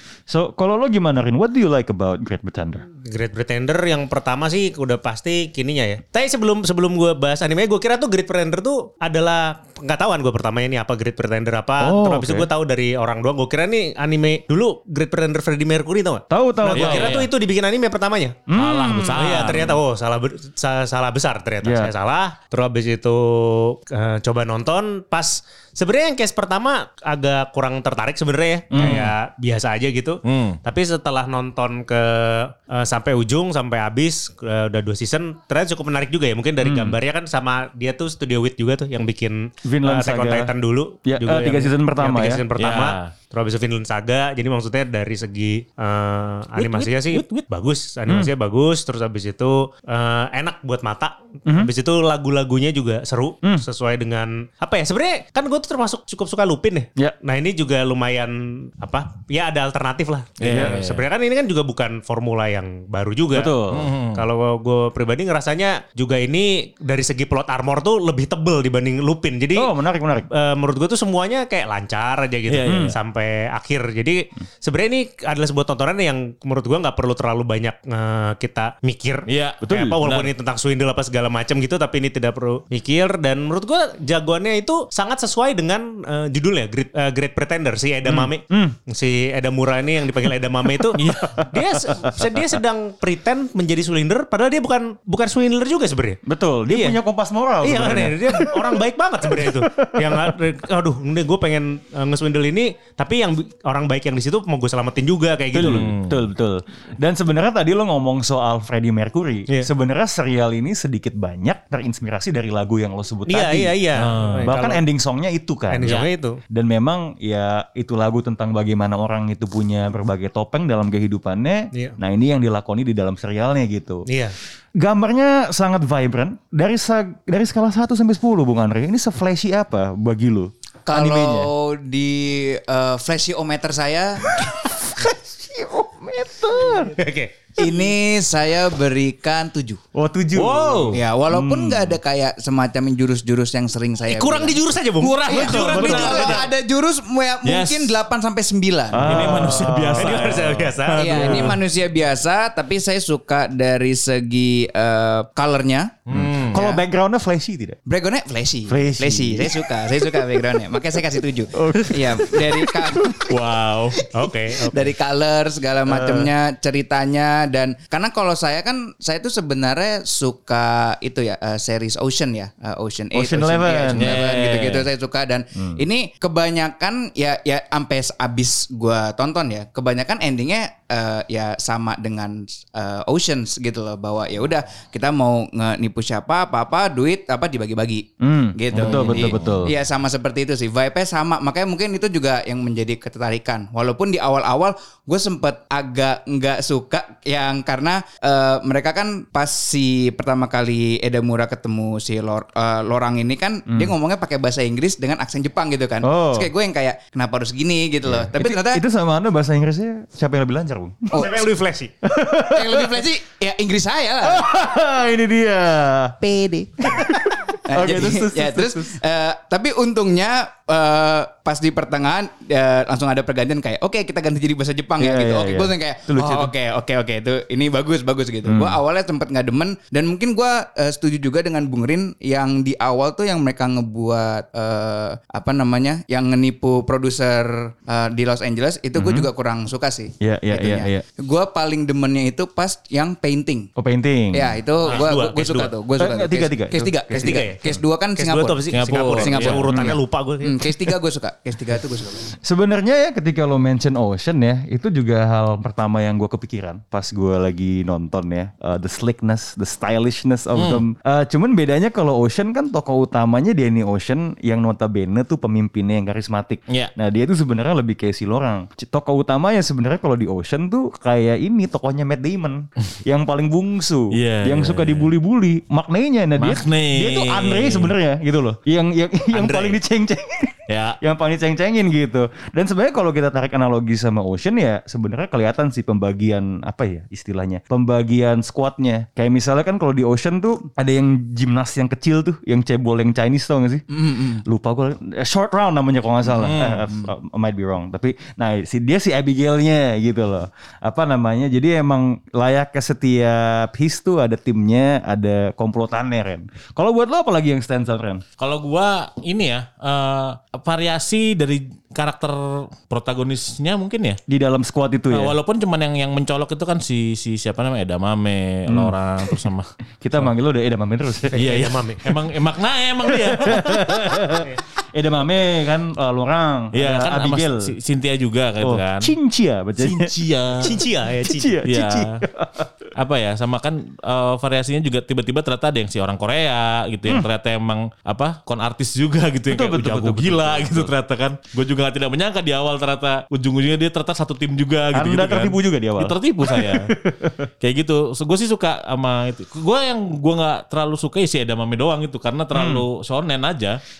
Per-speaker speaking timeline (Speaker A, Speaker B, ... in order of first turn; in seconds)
Speaker A: 0.3-2.8, 11.8-12.5, 16.3-17.2, 18.5-19.2, 21.6-21.9, 28.7-29.1, 36.6-37.0, 39.6-40.5, 41.0-42.4, 51.5-51.7, 60.4-60.8, 63.3-63.9, 69.5-70.3, 72.7-73.0, 79.6-80.0, 88.0-88.8, 91.0-92.1, 96.2-98.7, 99.3-100.3, 105.5-113.8, 114.4-116.0, 116.5-124.0, 124.8-131.5, 134.3-137.0, 139.9-142.0, 145.4-146.4, 148.9-150.4, 156.1-157.8, 158.7-160.3, 161.5-163.2, 173.1-174.2, 175.5-175.8, 188.2-189.7, 203.7-203.9, 206.0-206.5, 208.0-211.2, 212.0-213.0, 214.2-216.2, 216.8-219.0, 225.0-226.5, 228.4-228.8, 238.9-239.3, 240.2-241.0, 243.8-244.6, 246.0-247.8, 252.4-308.2, 314.3-315.4, 318.7-318.9, 320.0-322.1, 323.0-327.7, 328.6-330.1, 330.7-332.7, 339.5-340.9, 344.9-347.4, 352.5-352.9
Speaker B: 3.0-18.4, 19.1-63.6, 64.1-69.7, 70.3-97.0, 97.6-105.9, 113.3-114.8, 115.7-116.4, 124.1-124.3, 137.0-137.9, 144.1-146.1, 149.9-151.3, 164.1-164.9, 211.1-211.9, 244.9-245.7, 247.1-247.6, 248.2-250.5, 279.3-279.8, 321.5-322.1, 330.6-331.6
Speaker C: 16.7-17.3, 18.6-19.8, 30.2-30.6, 42.6-43.1, 46.5-47.5, 60.4-61.0, 63.7-64.2, 72.5-73.0, 79.3-80.3, 91.0-91.3, 105.7-106.2, 114.0-114.5, 140.3-141.0, 145.0-146.4, 147.4-147.9, 149.0-151.6, 156.1-156.6, 163.3-164.0, 173.9-174.9, 188.7-189.7, 248.7-249.8, 260.6-260.8, 274.1-275.1, 276.4-277.9, 280.7-281.0, 296.3-297.0, 308.4-314.2, 315.1-320.3, 321.3-324.1, 326.7-329.1, 329.8-330.7, 331.6-332.2, 332.9-346.9, 347.6-353.8
Speaker D: 130.8-134.3, 137.6-139.8, 140.9-144.6, 145.2-149.6, 151.0-156.0, 156.5-156.8, 157.8-163.3, 164.6-208.8, 211.1-211.4, 212.5-214.5, 216.2-216.9, 217.7-243.7, 244.3-252.3, 293.9-294.4